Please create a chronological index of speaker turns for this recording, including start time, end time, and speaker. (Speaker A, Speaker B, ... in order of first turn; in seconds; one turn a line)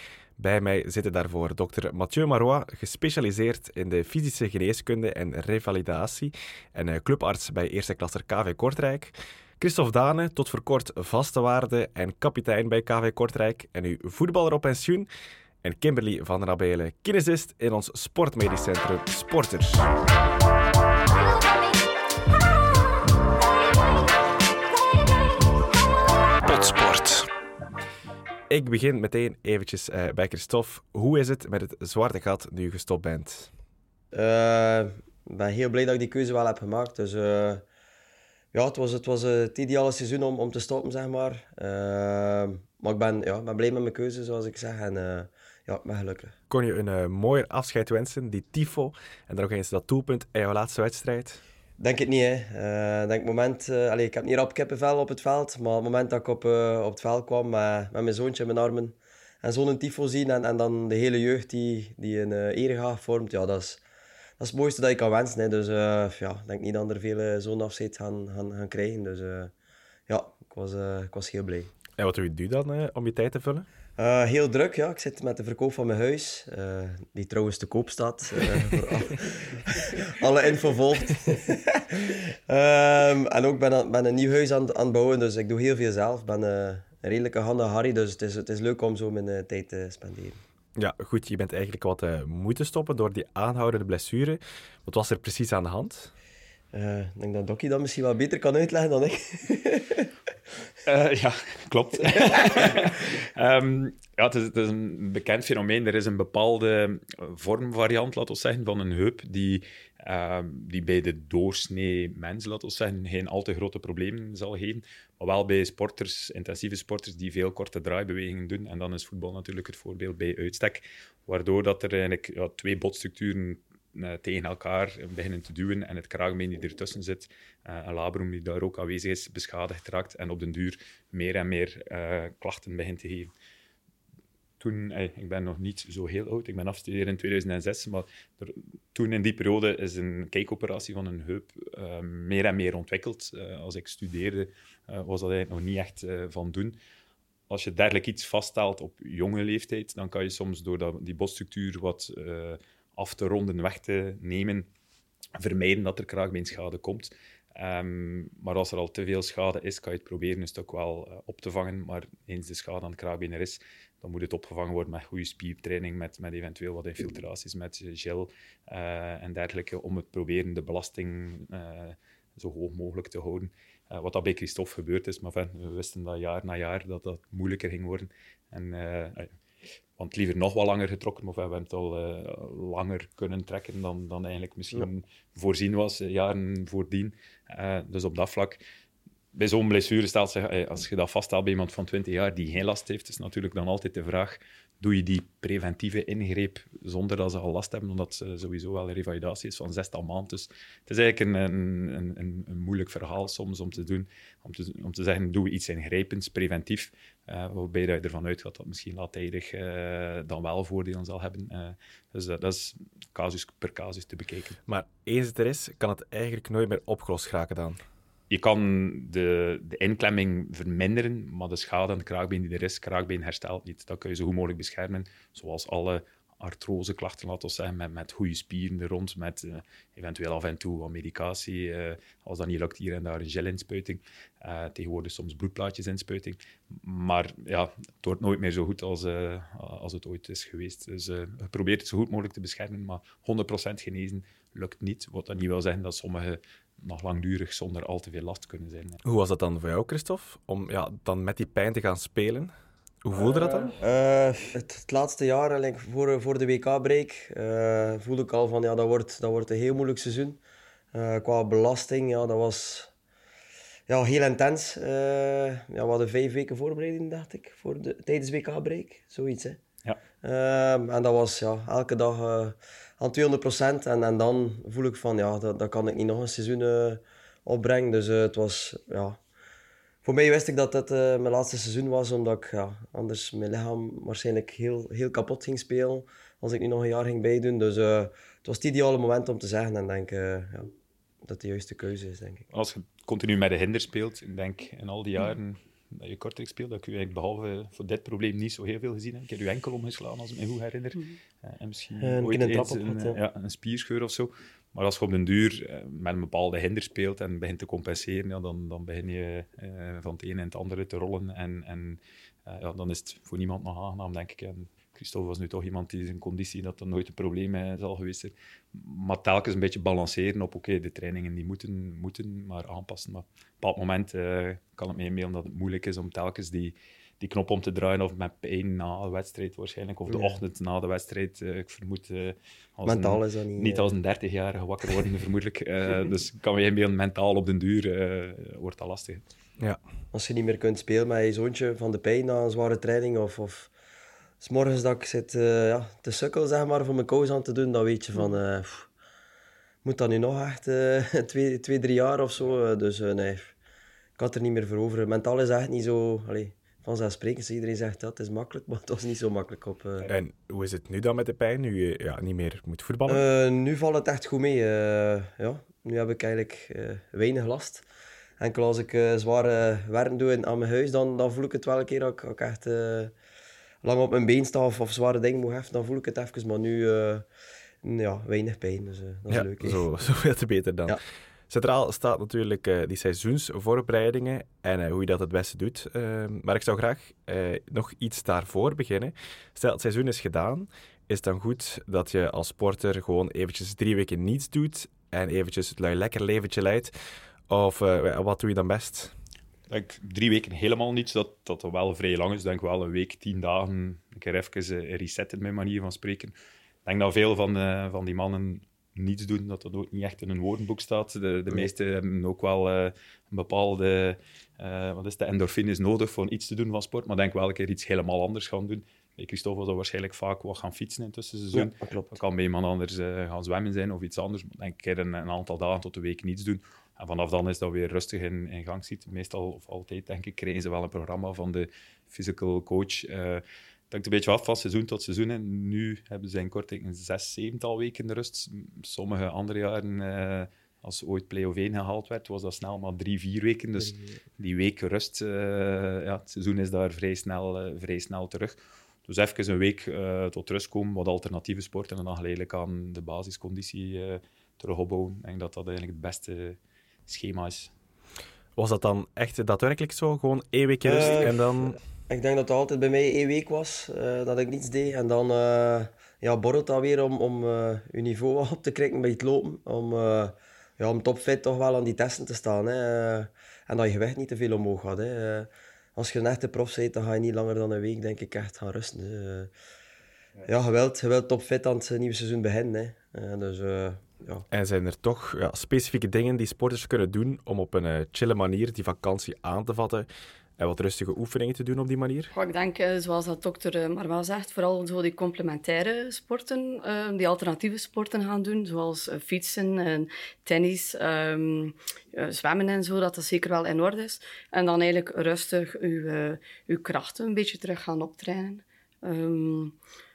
Speaker A: 0.4-15.1
Speaker A: 15.6-19.9
Speaker A: 26.4-27.3
Speaker A: 28.5-33.5
Speaker B: 34.1-37.6
Speaker B: 38.5-46.3
Speaker A: 46.5-51.4
Speaker B: 51.8-63.8
Speaker B: 64.4-69.5
Speaker B: 70.1-71.7
Speaker A: 72.0-73.7
Speaker B: 74.0-90.4
Speaker A: 90.8-96.1
Speaker B: 96.7-100.1
Speaker C: 100.8-133.3
Speaker C: 134.6-146.8
Speaker C: 147.5-154.7
Speaker C: 155.4-179.3
Speaker C: 180.0-188.6
Speaker C: 189.3-214.6
Speaker A: 214.7-217.8
Speaker C: 218.3-249.0
Speaker A: 249.0-252.5
Speaker A: 253.0-253.7
Speaker B: 253.2-260.4
Speaker B: 260.9-262.9
Speaker B: 263.9-269.6
Speaker B: 270.2-279.2
Speaker B: 280.0-290.7
Speaker B: 291.2-292.4
Speaker C: 292.5-339.2
Speaker B: 302.0-303.2
Speaker B: 330.1-330.4
Speaker B: 332.9-333.9
Speaker B: 340.1-343.7
Speaker B: 344.4-348.9
Speaker B: 349.8-353.5
Speaker B: 354.2-360.1
Speaker A: 360.1-363.2
Speaker B: 363.1-367.8
Speaker B: 368.4-373.1
Speaker B: 373.8-377.2
Speaker B: 377.8-379.8
Speaker A: 379.3-381.0
Speaker A: 381.5-396.9
Speaker A: 397.5-399.1
Speaker C: 399.7-406.3
Speaker C: 406.8-457.7
Speaker B: 421.5-422.1
Speaker A: 458.6-461.8
Speaker B: 460.8-479.5
Speaker B: 480.4-484.4
Speaker A: 484.5-490.1
Speaker A: 490.6-492.3
Speaker D: 492.3-509.8